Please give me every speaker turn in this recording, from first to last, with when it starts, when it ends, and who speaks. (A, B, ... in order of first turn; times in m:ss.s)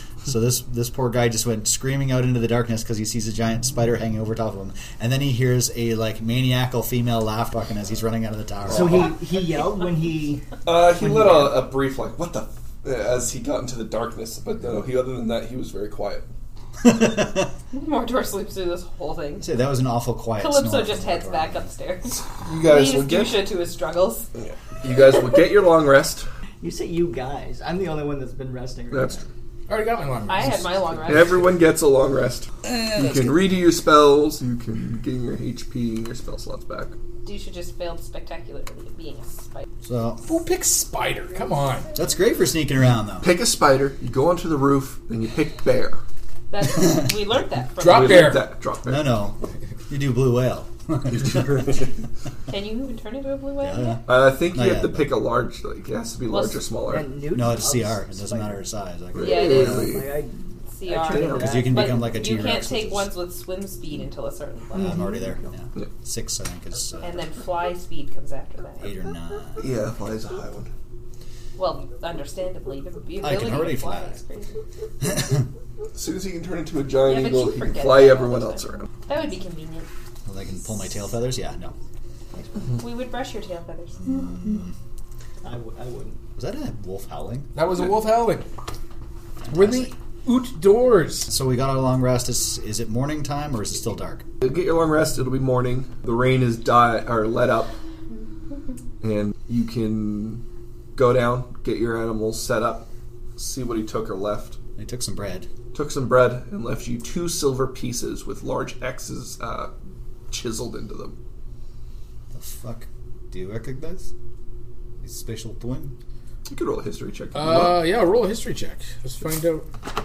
0:00.2-0:09.1 A
0:08.7-0:09.2 B
0:08.7-0:11.6 C
0:10.6-0:16.3 B
0:16.8-0:17.5 A
0:17.7-0:19.5 D
0:19.4-0:21.7 A
0:20.4-0:24.3 D
0:22.4-0:23.5 B
0:24.3-0:26.3 B
0:26.6-0:29.2 C
0:28.9-0:29.3 B
0:29.7-0:31.4 E
0:30.3-0:31.3 D
0:31.1-0:37.0 B
0:37.2-0:39.6 D
0:39.8-0:40.2 A
0:40.2-0:41.9 E
0:41.9-0:43.3 A
0:43.2-0:46.0 B
0:46.5-0:48.4 D
0:47.8-0:48.5 E
0:47.8-0:49.2 B
0:48.8-0:51.9 A
0:52.5-0:54.0 D
0:53.6-0:55.1 A
0:54.0-0:57.1 B
0:56.3-0:56.6 D
0:56.9-0:58.6 C
0:57.3-1:00.0 A
0:59.1-1:00.1 B
0:59.2-1:00.0 D
0:59.6-1:02.1 C
1:00.7-1:05.1 D
1:00.9-1:01.7 B
1:01.4-1:03.1 A
1:04.7-1:07.2 A
1:04.7-1:05.5 C
1:07.0-1:08.9 D
1:08.8-1:09.7 A
1:09.6-1:10.7 B
1:11.6-1:14.6 D
1:13.2-1:14.2 A
1:15.0-1:15.4 A
1:15.9-1:18.9 B
1:17.0-1:19.9 D
1:20.2-1:21.7 A
1:22.3-1:22.7 C
1:22.8-1:24.0 D
1:24.0-1:24.7 A
1:25.4-1:26.2 C
1:26.4-1:27.5 A
1:27.5-1:28.4 E
1:29.4-1:29.9 A
1:29.5-1:31.3 E
1:31.3-1:34.2 A
1:34.4-1:37.7 B
1:39.0-1:40.4 B
1:40.9-1:44.6 B
1:44.8-1:45.5 A
1:45.7-1:49.7 B
1:50.3-1:51.2 B
1:52.3-1:54.1 A
1:55.0-1:56.0 A
1:56.5-1:57.8 B
1:57.3-1:59.7 E